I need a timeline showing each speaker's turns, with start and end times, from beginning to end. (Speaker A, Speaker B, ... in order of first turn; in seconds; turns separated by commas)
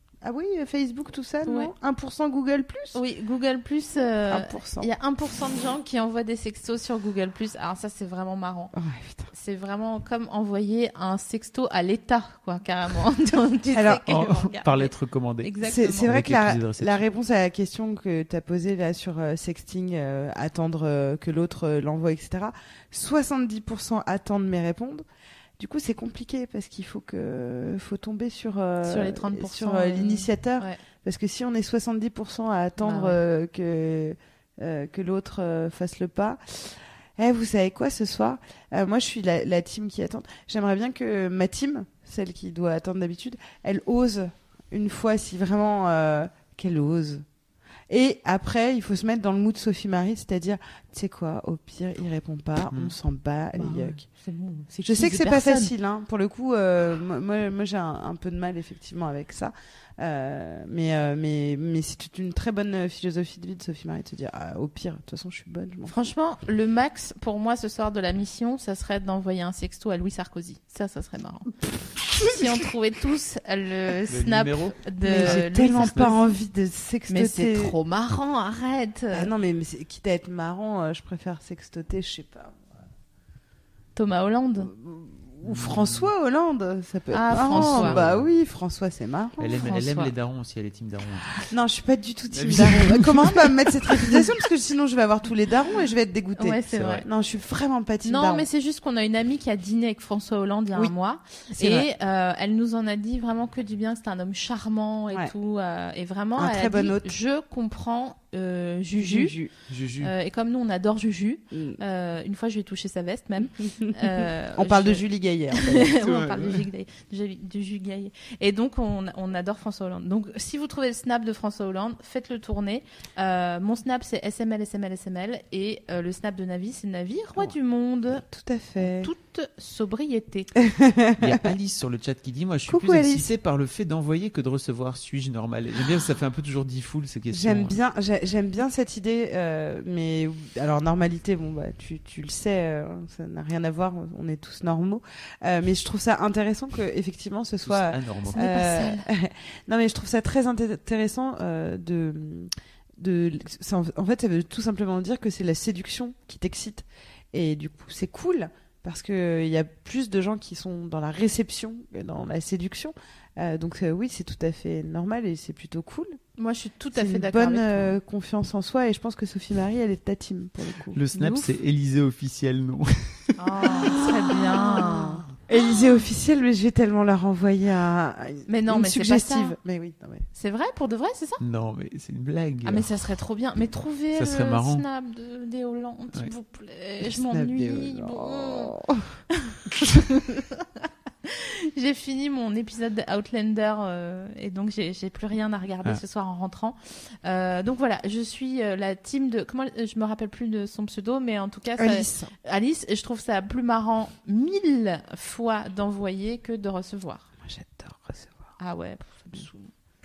Speaker A: 0.2-3.0, Speaker B: 1.4-1.7, Speaker B: 2.9-8.7, Speaker A: 4.3-4.9, Speaker A: 8.7-9.3, Speaker B: 9.3-16.1, Speaker A: 13.7-14.1, Speaker C: 14.1-17.0, Speaker A: 15.6-25.1, Speaker A: 25.6-47.2, Speaker B: 28.8-30.8, Speaker B: 32.8-33.2, Speaker A: 47.9-54.0, Speaker B: 53.5-55.7, Speaker A: 54.8-65.9, Speaker B: 65.9-71.5, Speaker B: 72.2-76.4, Speaker C: 74.1-76.1, Speaker A: 75.0-77.8, Speaker B: 77.1-79.3, Speaker A: 79.1-82.7, Speaker B: 84.0-84.7, Speaker A: 84.6-89.6, Speaker C: 85.4-86.1, Speaker B: 87.1-88.0, Speaker C: 87.4-88.3, Speaker C: 89.4-91.4, Speaker B: 89.5-90.1, Speaker A: 91.5-98.5, Speaker C: 92.3-93.3, Speaker B: 96.4-97.1, Speaker B: 98.0-109.4, Speaker A: 101.6-101.9, Speaker A: 106.4-107.2, Speaker A: 109.0-109.5, Speaker C: 109.7-110.1, Speaker B: 110.0-128.2, Speaker A: 111.5-111.8, Speaker A: 114.6-116.0, Speaker C: 116.0-116.7, Speaker A: 128.1-129.1, Speaker B: 128.8-130.5, Speaker A: 130.6-131.5, Speaker C: 131.2-137.8, Speaker A: 132.7-133.3, Speaker A: 137.3-166.2, Speaker C: 147.7-148.5, Speaker B: 148.3-149.0, Speaker B: 166.4-168.0, Speaker A: 166.9-171.0, Speaker C: 170.9-173.4, Speaker B: 171.1-171.5, Speaker B: 173.4-175.3, Speaker A: 174.5-180.3, Speaker B: 178.5-179.6, Speaker B: 180.3-181.4, Speaker C: 181.4-182.9, Speaker B: 182.6-188.8, Speaker C: 184.1-184.8, Speaker A: 187.0-189.1, Speaker B: 189.4-190.7, Speaker B: 191.2-207.3, Speaker A: 201.8-202.3, Speaker A: 207.4-208.5, Speaker B: 208.6-209.7